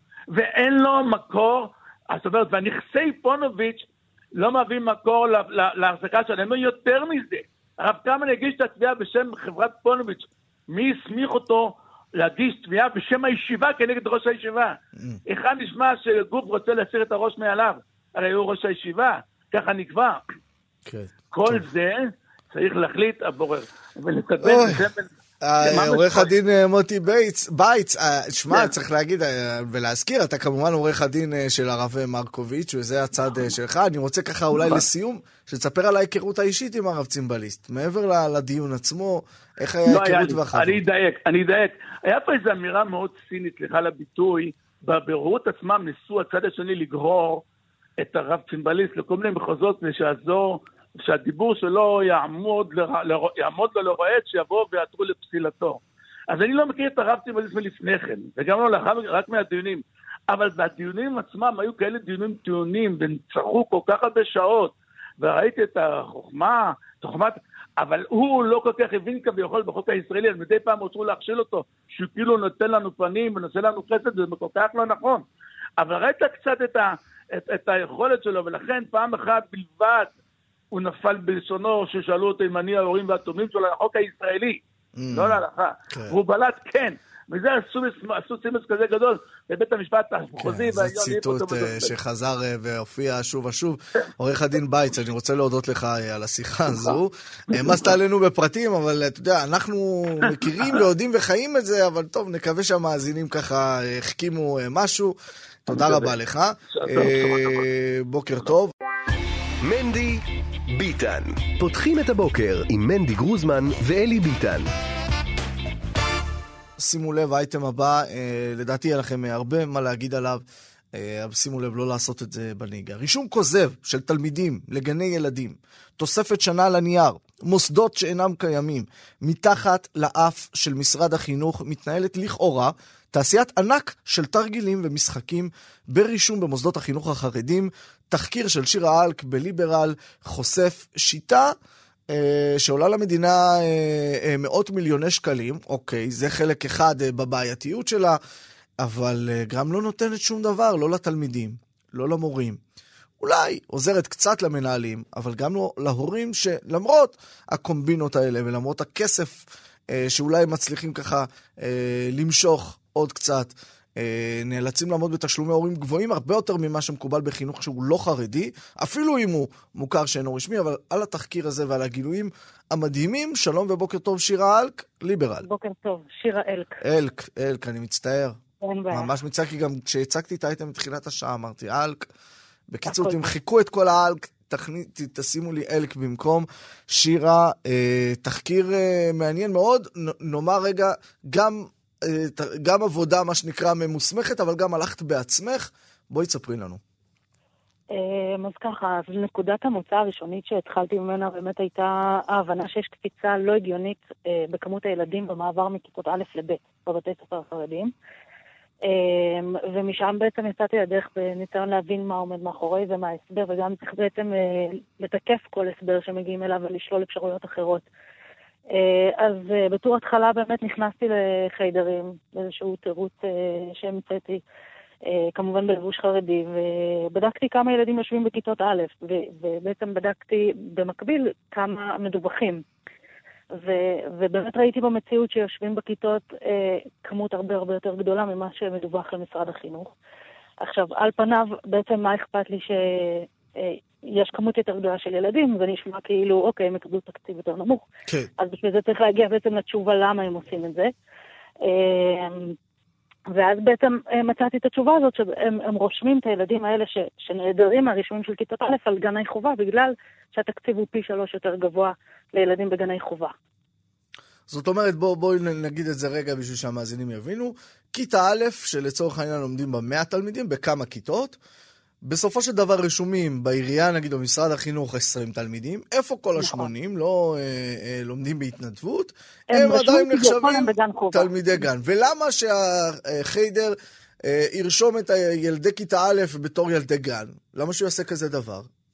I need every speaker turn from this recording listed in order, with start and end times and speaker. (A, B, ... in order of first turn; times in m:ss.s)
0:00.3-0:14.8 A
0:15.3-0:20.2 A
0:20.9-0:21.7 B
0:21.3-0:25.1 A
0:24.4-0:24.9 B
0:25.4-0:40.8 B
0:25.6-0:26.3 A
0:34.6-0:34.8 A
0:39.8-0:47.4 A
0:48.0-1:15.2 A
1:15.8-1:20.1 A
1:20.7-1:24.6 A
1:25.0-1:26.2 B
1:25.1-1:31.9 A
1:30.4-1:45.2 B
1:36.7-1:37.0 A
1:37.5-1:37.9 A
1:45.7-1:48.7 B
1:45.7-1:46.1 A
1:46.7-1:47.6 A
1:49.6-1:50.2 C
1:50.7-1:54.7 C
1:56.8-2:00.4 B
2:00.9-2:21.5 B
2:22.1-2:28.2 B
2:28.8-2:32.6 B
2:33.2-2:55.5 B
2:55.4-2:56.8 D
2:56.8-2:58.4 B
2:58.6-2:59.1 D
2:58.9-3:02.1 B
3:02.7-3:16.8 B
3:02.9-3:03.2 D
3:17.9-3:27.9 D
3:28.8-3:37.9 D
3:38.7-3:44.4 D
3:45.1-3:52.6 D
3:53.5-3:59.9 D
4:00.6-4:07.8 D
4:08.4-4:10.9 D
4:11.6-4:12.6 D
4:13.3-4:23.3 D
4:24.5-4:31.4 B
4:32.0-4:48.7 B
4:36.4-4:36.7 D
4:39.5-4:41.3 D